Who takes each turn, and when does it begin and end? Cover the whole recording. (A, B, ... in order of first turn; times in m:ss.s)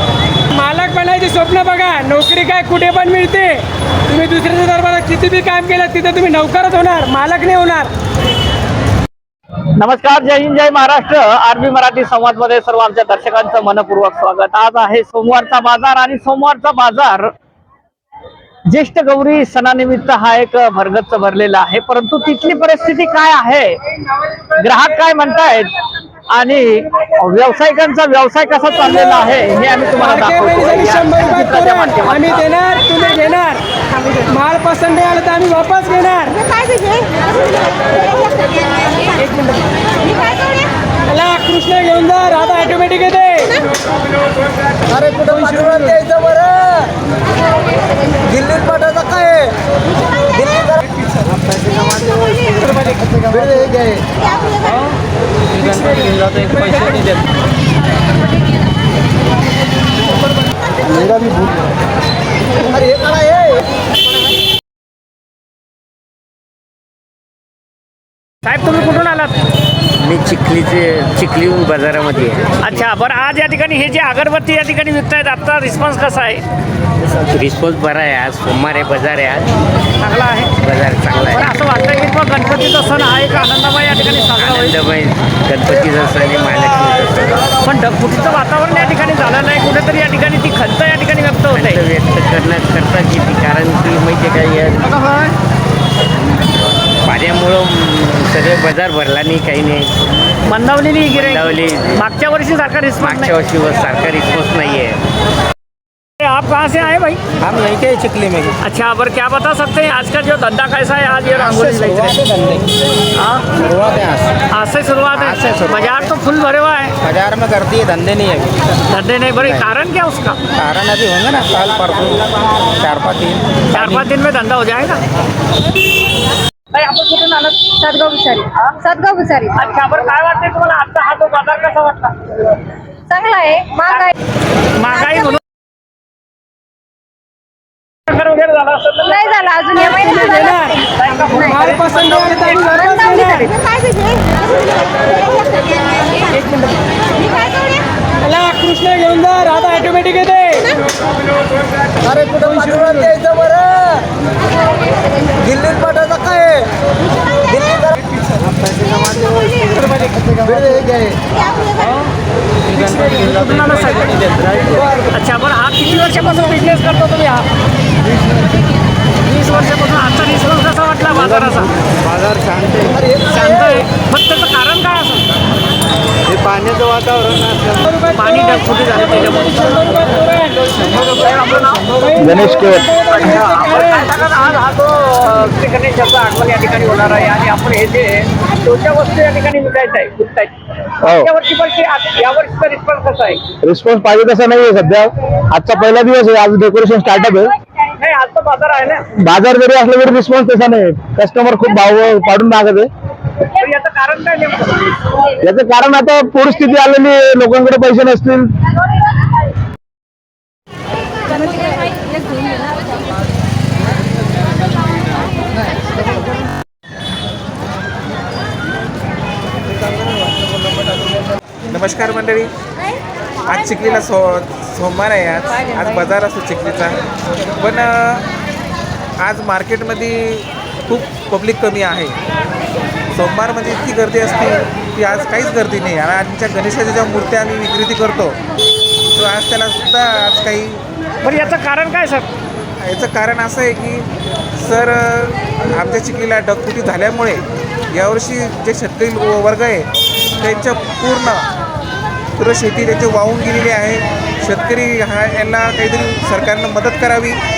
0:00.5-0:07.9 A
0:09.8-0:17.3 B
0:18.7-0:23.8 B
0:24.6-0:25.7 B
0:26.3-0:32.4 B
0:30.0-0:33.6 A
0:34.2-0:36.4 A
0:39.3-0:39.6 A
0:41.1-0:43.6 A
0:45.0-0:46.4 A
0:51.3-0:53.9 C
0:55.5-0:57.2 C
1:08.4-1:09.3 B
1:10.0-1:12.9 D
1:12.6-1:16.4 B
1:17.3-1:19.5 D
1:20.0-1:20.6 B
1:20.6-1:21.5 D
1:21.3-1:24.8 B
1:24.3-1:27.4 D
1:27.6-1:31.8 B
1:31.5-1:34.9 D
1:34.8-1:35.3 B
1:37.0-1:39.9 D
1:40.5-1:43.4 B
1:41.1-1:42.0 D
1:43.0-1:45.0 D
1:46.2-1:47.2 B
1:47.4-1:48.5 C
1:48.6-1:52.2 B
1:51.4-1:52.7 C
1:53.2-1:53.5 B
1:53.6-1:54.4 C
1:54.5-1:56.9 B
1:55.1-1:56.1 C
1:57.0-1:58.6 C
1:58.9-2:00.4 B
1:59.4-1:59.6 C
2:00.6-2:02.3 C
2:02.8-2:04.1 C
2:03.7-2:05.0 B
2:06.7-2:08.8 B
2:07.8-2:09.6 E
2:09.5-2:12.4 B
2:13.1-2:14.1 E
2:14.7-2:15.4 B
2:18.1-2:19.4 B
2:19.3-2:20.7 E
2:19.8-2:20.8 A
2:20.9-2:22.6 B
2:21.4-2:23.6 A
2:28.2-2:30.7 A
2:32.4-2:33.1 A
2:35.5-2:36.0 C
2:38.4-2:41.0 C
2:42.7-2:43.7 C
2:42.8-2:47.5 B
2:44.3-2:44.7 C
2:49.3-2:51.7 B
2:52.0-2:53.2 C
2:53.2-2:55.2 B
2:56.3-2:57.9 C
2:58.0-2:58.6 A
2:58.1-3:00.2 B
2:59.1-3:00.5 A
3:00.8-3:02.1 B
3:02.0-3:04.0 A
3:02.2-3:03.1 F
3:03.1-3:13.5 B
3:11.0-3:11.3 F
3:13.6-3:17.5 F
3:18.0-3:19.1 B
3:19.2-3:22.9 F
3:23.5-3:25.1 B
3:25.4-3:28.5 F
3:41.7-3:42.5 G
3:43.4-3:47.0 G
3:47.6-3:48.3 G
3:49.2-3:52.2 G
3:53.1-3:58.4 G
3:59.1-4:01.6 G
4:01.2-4:02.2 B
4:02.8-4:09.9 G
4:10.4-4:11.5 G
4:12.4-4:17.4 G